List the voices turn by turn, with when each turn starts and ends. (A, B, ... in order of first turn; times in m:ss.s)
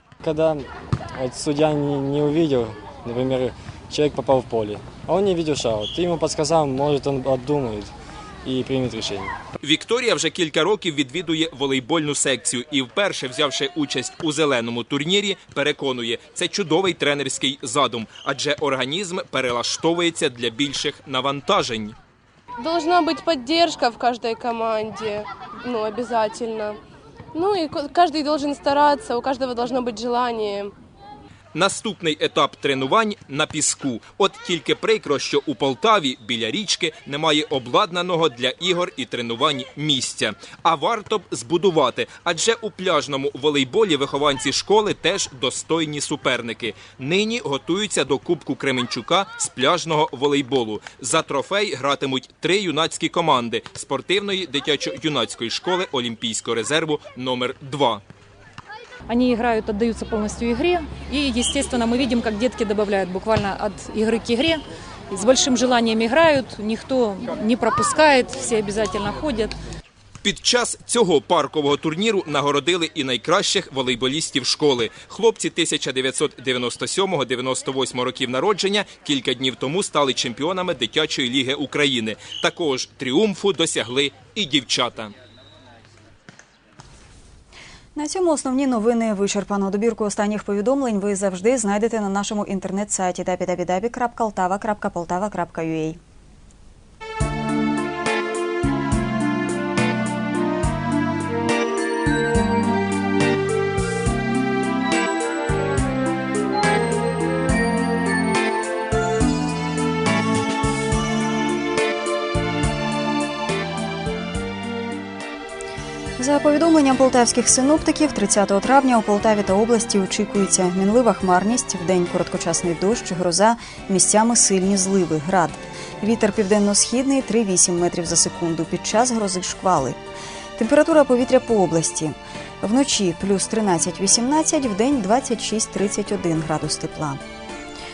0:00.2-0:09.4 A
0:09.6-0:22.0 B
0:22.6-0:26.8 C
0:27.4-0:30.7 C
0:31.6-0:58.0 B
0:59.1-1:09.6 D
1:10.2-1:25.1 B
1:28.0-1:36.0 E
1:56.2-2:10.0 E
2:10.6-2:17.2 E